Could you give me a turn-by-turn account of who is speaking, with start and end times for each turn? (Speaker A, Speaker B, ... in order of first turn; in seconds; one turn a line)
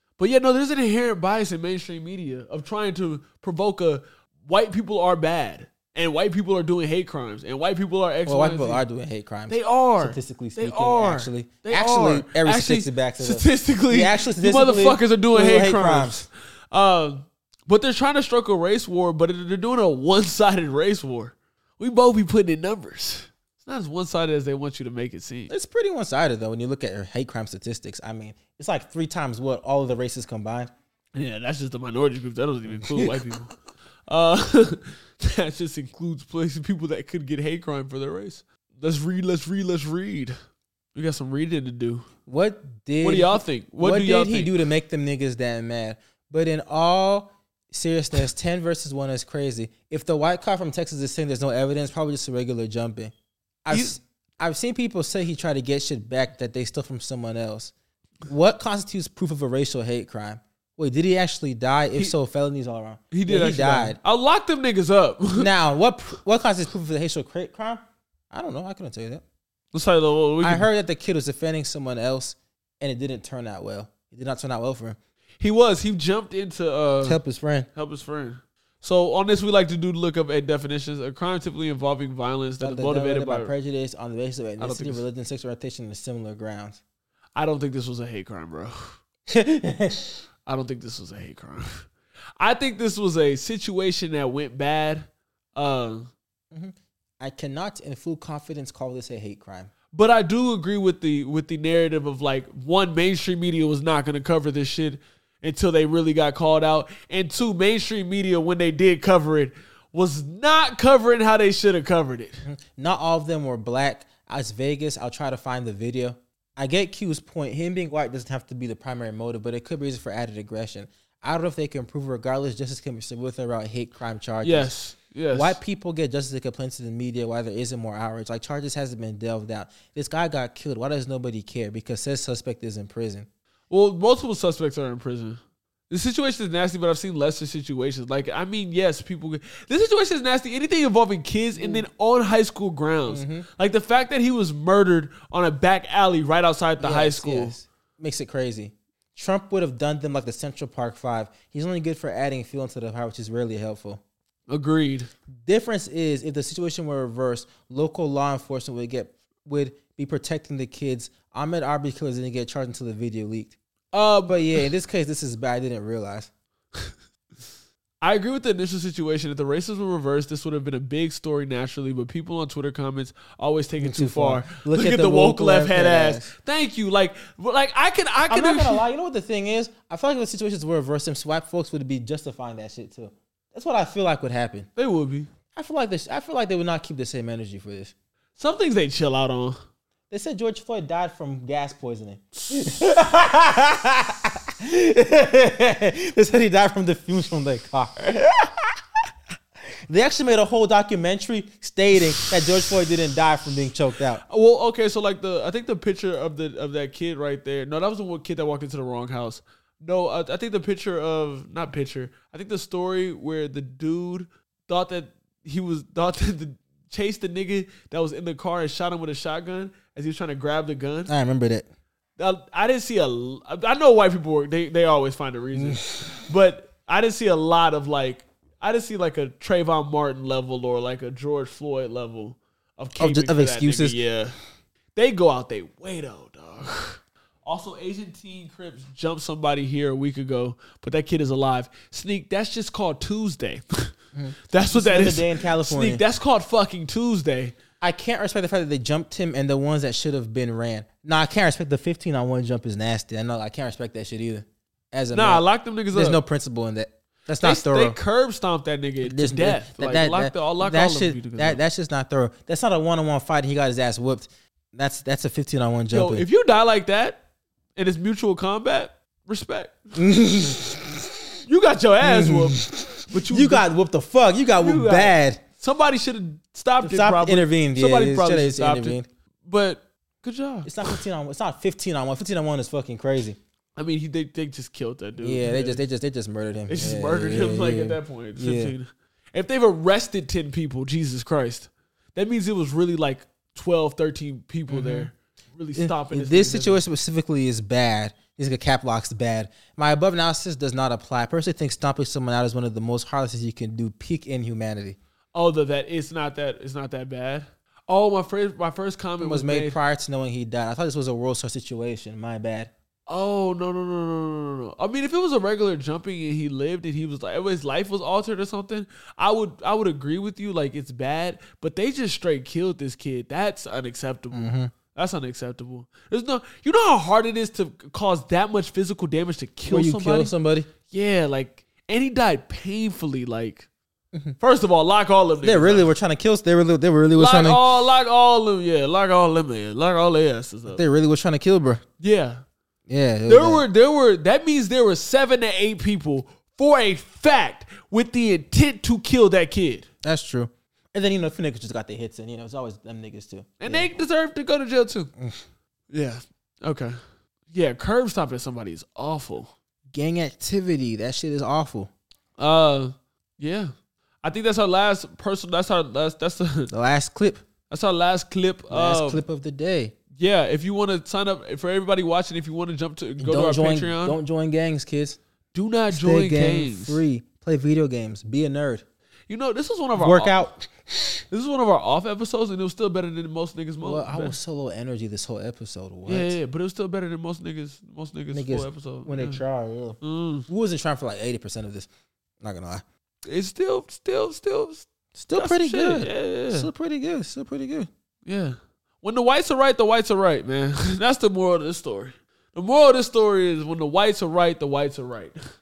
Speaker A: 0.2-8.8
Speaker B: 8.3-16.3
Speaker A: 9.5-25.5
Speaker B: 25.5-30.7
Speaker A: 31.1-33.5
Speaker B: 32.7-33.3
Speaker A: 34.1-40.4
Speaker A: 40.9-42.1
Speaker B: 42.3-53.1
Speaker A: 43.0-44.5
Speaker B: 53.6-57.7
Speaker A: 53.7-54.0
Speaker B: 58.3-64.0
Speaker A: 63.1-65.5
Speaker B: 65.4-69.2
Speaker A: 69.7-70.7
Speaker B: 70.4-75.0
Speaker A: 75.4-77.2
Speaker B: 77.0-77.7
Speaker A: 77.8-83.5
Speaker B: 82.6-86.8
Speaker A: 84.6-85.0
Speaker A: 87.3-89.0
Speaker B: 89.3-90.2
Speaker A: 90.5-91.9
Speaker A: 92.4-96.1
Speaker B: 96.5-99.7
Speaker A: 99.9-112.5
Speaker B: 112.4-124.7
Speaker A: 124.4-125.6
Speaker B: 125.3-133.3
Speaker A: 133.7-147.5
Speaker B: 141.6-141.9
Speaker B: 143.1-143.5
Speaker B: 146.8-154.0
Speaker A: 154.5-155.1
Speaker B: 155.4-163.6
Speaker A: 163.9-164.7
Speaker B: 164.3-166.3
Speaker A: 168.0-178.8
Speaker B: 173.8-176.3
Speaker B: 178.3-184.7
Speaker A: 184.8-185.3
Speaker B: 185.5-187.9
Speaker A: 188.4-189.6
Speaker B: 190.1-198.6
Speaker A: 192.3-192.7
Speaker B: 199.9-204.2
Speaker A: 204.3-221.1
Speaker B: 221.1-221.7
Speaker A: 222.2-234.4
Speaker B: 225.6-225.9
Speaker B: 233.0-234.0
Speaker A: 234.9-243.9
Speaker B: 244.1-246.0
Speaker A: 244.5-247.5
Speaker B: 247.8-258.0
Speaker A: 255.1-256.2
Speaker A: 257.4-261.6
Speaker B: 259.0-266.2
Speaker A: 265.9-267.2
Speaker A: 267.8-270.0
Speaker B: 269.9-271.1
Speaker A: 271.5-273.7
Speaker B: 272.0-275.4
Speaker A: 274.6-280.9
Speaker B: 276.8-279.1
Speaker B: 280.6-283.4
Speaker A: 283.8-285.8
Speaker B: 285.2-288.8
Speaker A: 286.7-296.8
Speaker B: 294.7-295.1
Speaker B: 295.8-305.0
Speaker A: 305.3-309.8
Speaker B: 309.2-312.7
Speaker A: 313.1-330.3
Speaker B: 324.3-324.7
Speaker B: 329.7-330.7
Speaker A: 330.9-333.7
Speaker A: 334.4-335.9
Speaker B: 335.4-337.6
Speaker A: 337.2-340.8
Speaker B: 340.7-341.8
Speaker A: 342.0-342.4
Speaker B: 342.9-343.6
Speaker A: 343.3-349.9
Speaker B: 350.0-353.9
Speaker A: 353.6-355.1
Speaker B: 355.2-355.4
Speaker A: 355.9-357.0
Speaker A: 357.5-359.5
Speaker B: 359.9-361.9
Speaker A: 362.4-363.7
Speaker A: 364.2-366.7
Speaker B: 366.7-367.4
Speaker A: 367.7-369.2
Speaker B: 368.7-369.9
Speaker A: 370.2-374.2
Speaker B: 373.2-375.2
Speaker A: 375.5-377.1
Speaker B: 375.9-378.8
Speaker A: 379.3-380.4
Speaker B: 379.9-381.1
Speaker A: 381.3-384.4
Speaker B: 383.8-386.4
Speaker A: 386.1-389.4
Speaker B: 388.3-391.9
Speaker A: 390.0-390.5
Speaker B: 392.4-392.8
Speaker A: 393.3-396.7
Speaker B: 395.1-397.9
Speaker A: 398.3-405.4